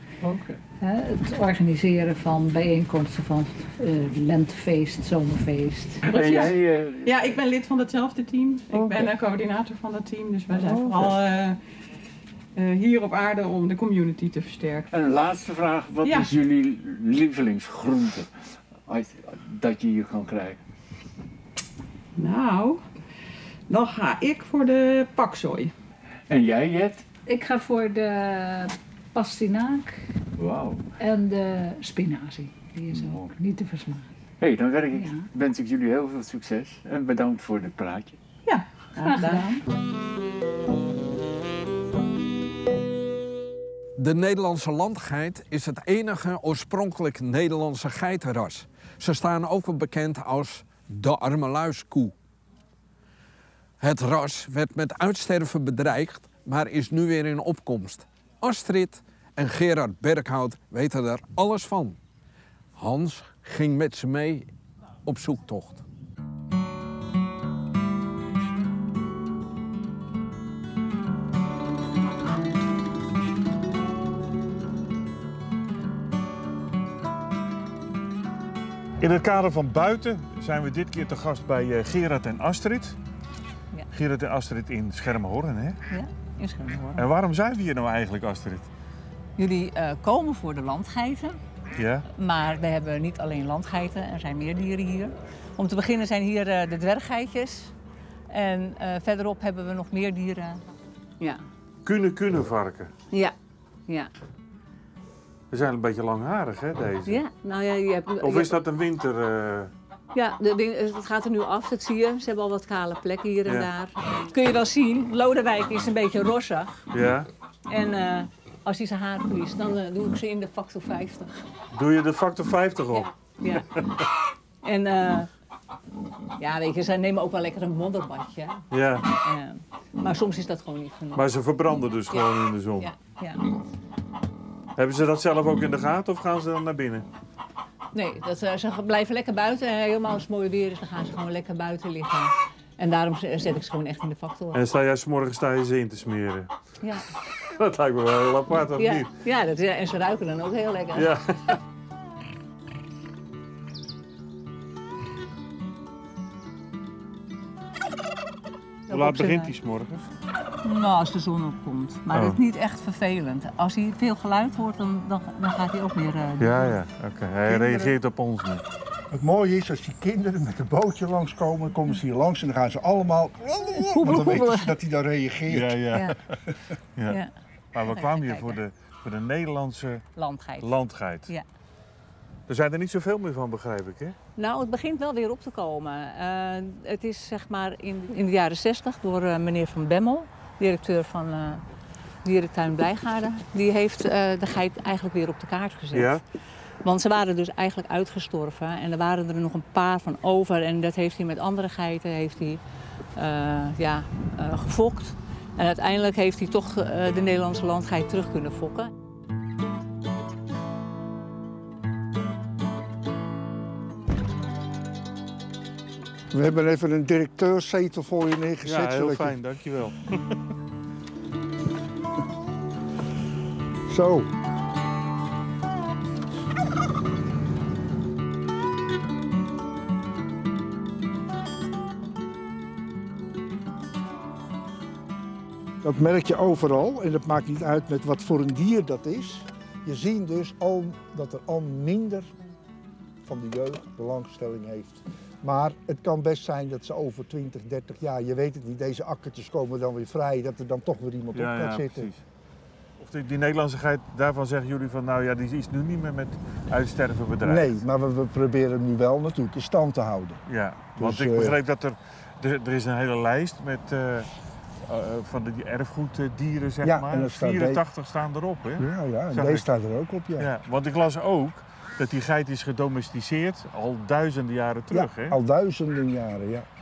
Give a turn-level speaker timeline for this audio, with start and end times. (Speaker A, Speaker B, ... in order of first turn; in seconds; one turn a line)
Speaker A: 0.2-0.6
Speaker B: 0.8-6.0
Speaker C: 6.0-11.6
Speaker A: 6.1-7.4
Speaker A: 8.7-9.1
Speaker A: 10.5-11.2
Speaker C: 12.6-14.9
Speaker A: 14.9-18.3
Speaker C: 16.0-16.3
Speaker A: 18.8-20.6
Speaker C: 22.1-22.8
Speaker C: 23.7-25.7
Speaker A: 26.3-27.1
Speaker B: 27.2-30.0
Speaker A: 30.4-30.9
Speaker B: 31.0-34.1
Speaker A: 32.9-33.3
Speaker A: 34.4-38.2
Speaker B: 34.9-35.3
Speaker C: 38.5-39.4
Speaker B: 39.0-39.5
Speaker D: 44.0-52.1
Speaker D: 53.8-62.0
Speaker D: 62.8-64.5
Speaker D: 65.0-65.8
Speaker E: 79.0-83.0
Speaker E: 83.9-85.8
Speaker F: 85.9-87.1
Speaker E: 86.9-88.7
Speaker F: 89.4-91.4
Speaker E: 91.8-92.0
Speaker F: 92.1-97.7
Speaker F: 98.3-100.6
Speaker E: 101.8-102.9
Speaker E: 105.5-107.2
Speaker F: 107.0-108.6
Speaker E: 108.2-109.7
Speaker F: 110.1-116.8
Speaker E: 116.9-117.3
Speaker F: 117.7-121.4
Speaker E: 121.7-123.1
Speaker F: 122.9-123.7
Speaker E: 123.7-124.0
Speaker F: 124.6-125.3
Speaker F: 126.4-128.6
Speaker E: 128.7-129.1
Speaker F: 129.2-131.2
Speaker E: 131.1-132.9
Speaker F: 132.1-133.4
Speaker E: 134.8-137.1
Speaker F: 137.9-144.7
Speaker E: 144.5-146.5
Speaker E: 147.5-149.1
Speaker F: 148.8-151.1
Speaker E: 150.9-151.6
Speaker F: 158.9-159.5
Speaker E: 158.9-160.1
Speaker F: 160.6-166.8
Speaker E: 162.1-162.4
Speaker E: 166.4-168.6
Speaker F: 167.5-167.9
Speaker G: 169.1-175.9
Speaker F: 173.9-174.6
Speaker E: 175.5-176.1
Speaker F: 175.9-176.1
Speaker F: 177.1-178.6
Speaker E: 177.7-180.0
Speaker F: 180.1-180.8
Speaker E: 180.6-181.3
Speaker E: 182.5-184.2
Speaker F: 184.4-191.6
Speaker F: 192.2-196.2
Speaker E: 195.9-196.2
Speaker F: 196.8-202.6
Speaker F: 203.1-208.9
Speaker G: 216.3-219.3
Speaker E: 218.6-220.2
Speaker G: 223.9-224.3
Speaker G: 235.8-242.3
Speaker G: 243.2-252.1
Speaker E: 251.3-252.2
Speaker E: 253.0-257.8
Speaker G: 257.4-260.4
Speaker E: 260.5-264.3
Speaker G: 261.0-261.6
Speaker E: 264.8-269.6
Speaker G: 266.8-267.8
Speaker G: 268.8-270.5
Speaker E: 270.4-275.4
Speaker G: 274.9-276.7